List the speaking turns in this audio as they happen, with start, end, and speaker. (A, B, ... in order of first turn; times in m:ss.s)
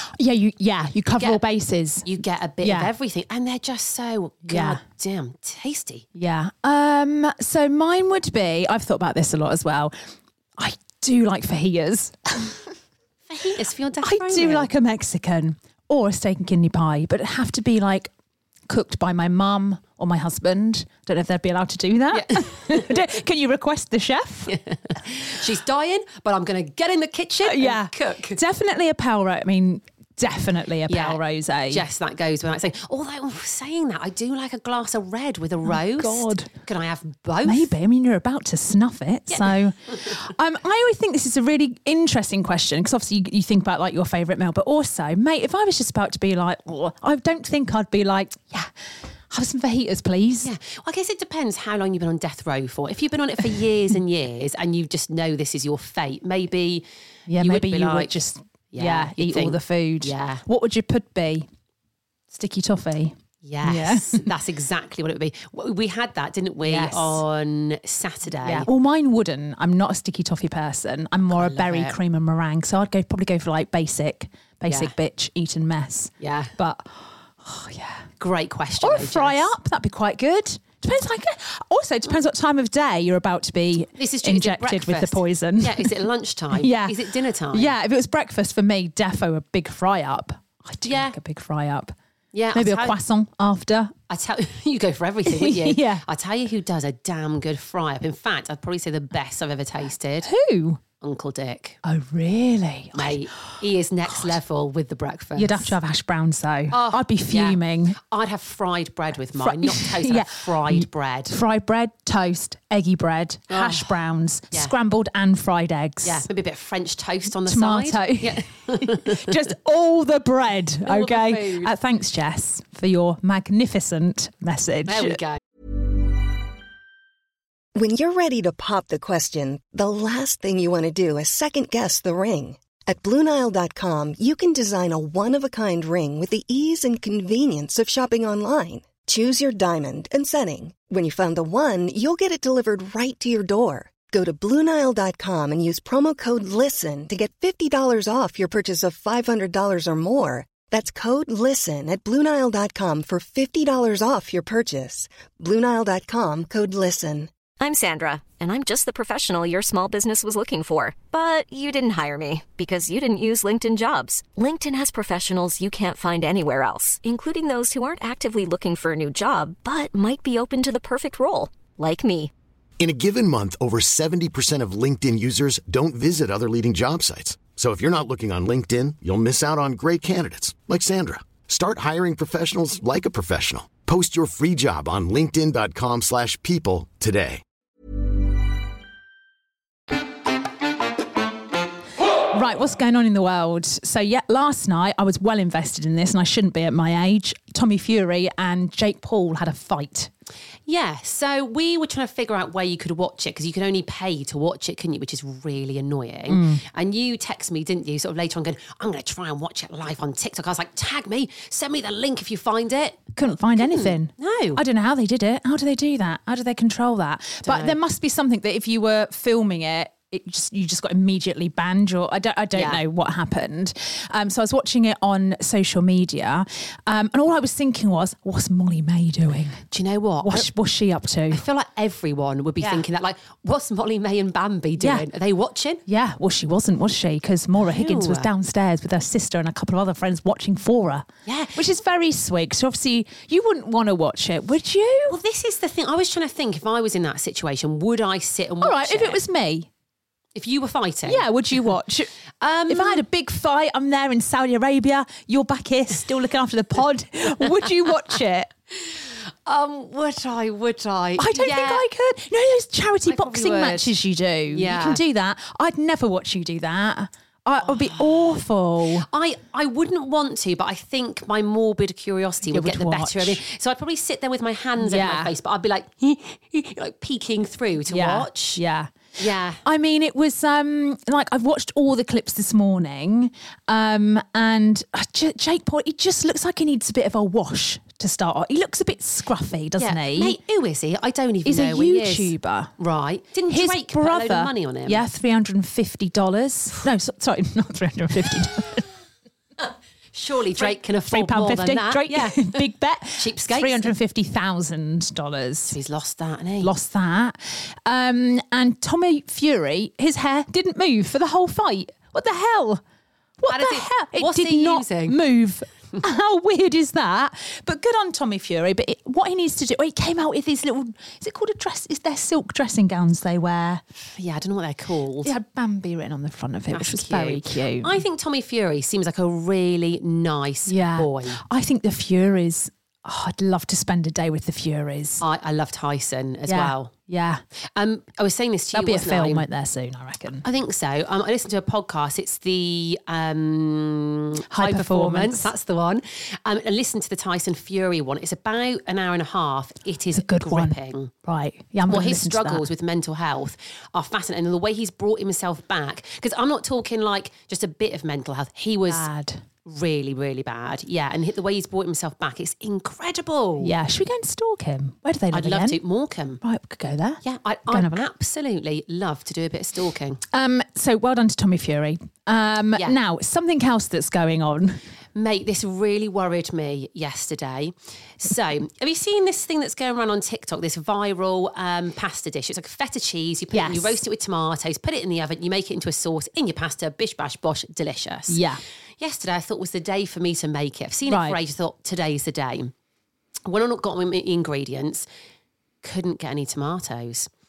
0:00.2-0:02.1 A
0:02.0-0:06.0 B
0:02.6-0:02.9 A
0:04.4-0:04.8 A
0:06.2-0:09.9 A
0:10.6-0:12.6 A
0:13.3-0:14.7 B
0:14.0-0:18.1 A
0:18.7-0:24.5 A
0:22.1-0:23.0 B
0:24.5-0:28.4 B
0:27.4-0:31.8 A
0:30.9-0:31.2 B
0:31.7-0:37.7 B
0:35.6-0:36.5 A
0:37.4-0:48.7 A
0:49.3-0:50.5 A
0:50.4-0:56.8 B
0:57.3-1:01.5 A
0:57.4-0:58.2 B
0:58.7-1:00.4 B
1:02.3-1:04.3 A
1:03.4-1:08.7 B
1:06.6-1:07.2 A
1:08.4-1:18.1 A
1:11.3-1:12.0 B
1:14.6-1:14.9 B
1:16.2-1:16.5 B
1:18.2-1:19.5 B
1:18.8-1:26.0 A
1:24.0-1:27.7 B
1:26.5-1:31.9 A
1:30.8-1:31.1 B
1:32.3-1:33.0 B
1:32.5-1:33.9 A
1:34.1-1:40.3 B
1:35.2-1:36.0 A
1:40.2-1:40.8 A
1:41.0-1:41.8 B
1:41.8-1:43.5 A
1:42.9-1:45.7 B
1:45.4-1:48.0 A
1:46.7-1:51.3 B
1:49.4-1:56.2 A
1:53.5-1:53.9 B
1:56.0-1:59.4 B
1:57.4-2:05.2 A
2:00.8-2:01.7 B
2:04.8-2:05.4 B
2:07.8-2:37.3 C
2:37.6-2:52.3 D
2:52.8-3:07.4 E
3:12.3-3:20.1 A
3:20.7-3:34.6 B
3:26.3-3:26.6 A
3:33.2-3:49.6 A
3:37.4-3:37.8 B
3:42.5-3:42.8 B
3:49.7-3:50.5 B
3:50.2-3:51.4 A
3:51.3-3:55.8 B
3:52.6-3:52.8 A
3:54.8-3:55.1 A
3:55.9-4:05.2 A
3:57.6-3:58.3 B
4:01.2-4:01.6 B
4:05.1-4:09.2 B
4:08.6-4:09.7 A
4:10.4-4:11.2 B
4:11.0-4:12.1 A
4:12.4-4:13.0 B
4:12.7-4:18.5 A
4:18.8-4:21.8 B
4:21.2-4:29.1 A
4:23.0-4:23.9 B
4:24.5-4:25.0 B
4:27.6-4:28.4 B
4:29.0-4:38.6 B
4:32.5-4:33.4 A
4:34.8-4:35.3 A
4:37.9-4:39.0 A
4:39.2-4:39.6 B
4:39.6-4:50.4 A
4:49.8-4:55.0 B
4:51.4-4:52.7 A
4:53.5-4:58.8 A
5:00.1-5:02.6 B
5:00.6-5:05.8 A
5:03.2-5:03.9 B
5:05.7-5:06.7 B
5:06.6-5:12.8 A
5:13.4-5:23.8 A
5:13.5-5:15.2 B
5:24.2-5:25.3 B
5:25.2-5:28.0 A
5:26.7-5:31.4 B
5:30.6-5:35.2 A
5:35.2-5:36.9 B
5:36.5-5:37.4 A
5:37.8-5:39.4 B
5:38.7-5:40.4 A
5:40.4-5:51.1 B
5:44.5-5:45.5 A
5:50.1-5:52.6 A
5:51.9-5:59.1 B
5:58.9-5:59.4 A
5:59.6-6:03.7 B
6:03.6-6:05.8 A
6:05.3-6:06.4 B
6:06.4-6:08.0 A
6:07.2-6:10.2 B
6:10.3-6:14.8 A
6:15.1-6:28.4 B
6:23.5-6:24.0 A
6:28.3-6:28.6 A
6:29.0-6:32.7 B
6:31.1-6:31.4 A
6:33.4-6:35.0 B
6:35.8-6:37.3 B